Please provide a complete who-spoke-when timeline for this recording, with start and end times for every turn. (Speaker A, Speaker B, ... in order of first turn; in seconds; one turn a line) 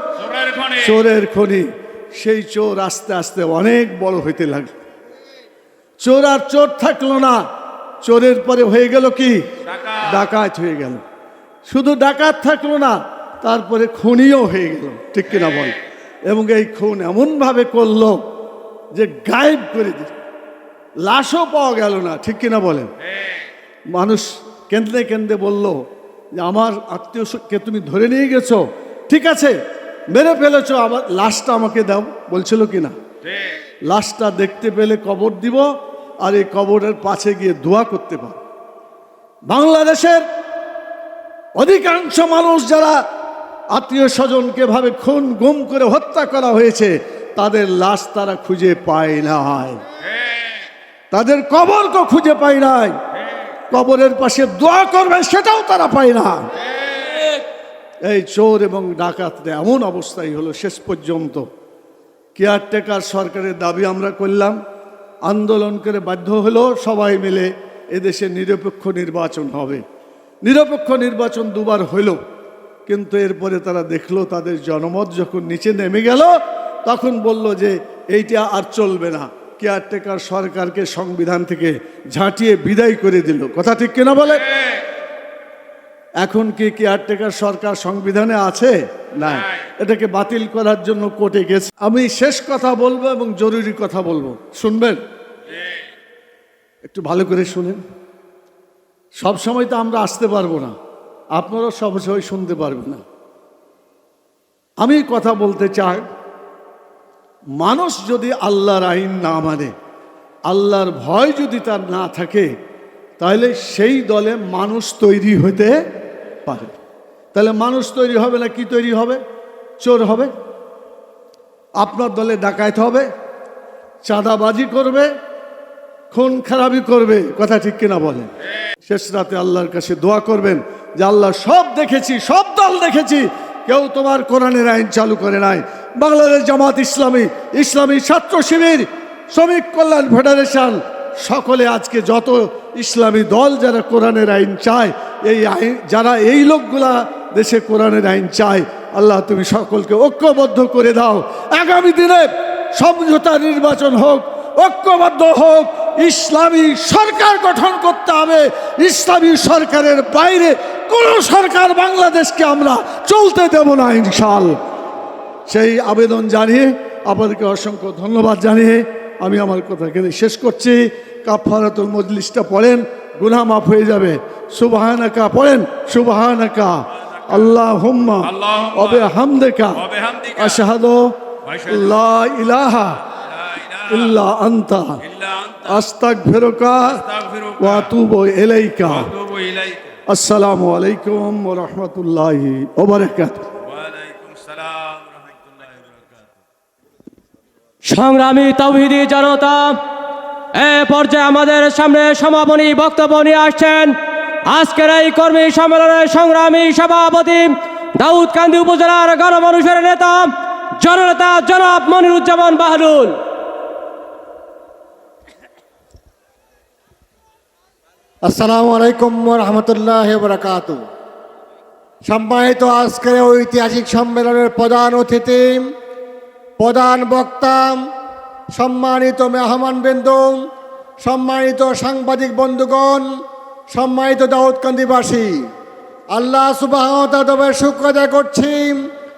Speaker A: 0.2-0.9
Speaker B: 0.8-4.7
Speaker B: 6.0-7.4
Speaker B: 8.0-9.5
Speaker A: 9.7-10.2
Speaker B: 10.0-11.0
Speaker B: 11.7-15.8
Speaker B: 16.3-18.2
Speaker B: 18.9-20.1
Speaker B: 21.0-22.9
Speaker A: 23.0-23.5
Speaker B: 23.9-25.8
Speaker B: 26.4-29.6
Speaker B: 30.1-33.0
Speaker A: 33.2-33.6
Speaker B: 33.9-35.7
Speaker B: 36.2-38.4
Speaker B: 39.5-40.3
Speaker B: 41.6-43.0
Speaker B: 43.7-49.8
Speaker A: 50.0-50.7
Speaker B: 51.1-53.0
Speaker B: 53.7-56.5
Speaker A: 56.8-57.4
Speaker B: 58.0-61.5
Speaker B: 62.4-64.6
Speaker B: 65.2-69.8
Speaker B: 70.4-72.2
Speaker B: 72.9-84.5
Speaker A: 84.3-84.8
Speaker B: 86.2-95.0
Speaker A: 89.2-89.6
Speaker A: 95.5-95.9
Speaker B: 96.8-97.8
Speaker B: 99.2-100.8
Speaker B: 101.4-103.0
Speaker B: 104.8-106.0
Speaker B: 107.6-109.7
Speaker B: 110.5-112.5
Speaker B: 113.2-115.8
Speaker B: 116.5-116.8
Speaker B: 117.3-119.2
Speaker B: 119.8-120.3
Speaker B: 121.8-123.1
Speaker B: 124.0-125.1
Speaker B: 126.1-128.3
Speaker B: 128.8-164.6
Speaker B: 165.5-179.8
Speaker A: 178.2-179.1
Speaker A: 179.8-180.6
Speaker B: 180.4-181.2
Speaker A: 181.4-182.0
Speaker B: 181.7-183.0
Speaker A: 183.2-184.2
Speaker B: 183.9-185.0
Speaker A: 185.0-185.8
Speaker B: 185.7-187.0
Speaker A: 186.9-187.9
Speaker B: 187.6-189.1
Speaker A: 188.8-190.0
Speaker B: 190.1-193.5
Speaker A: 193.6-196.4
Speaker C: 197.9-199.8
Speaker C: 200.6-203.9
Speaker C: 204.5-213.2
Speaker D: 218.3-220.8
Speaker D: 222.1-225.7
Speaker D: 226.6-227.8
Speaker D: 228.6-230.4
Speaker D: 231.0-233.1
Speaker D: 233.7-235.5
Speaker D: 236.1-238.8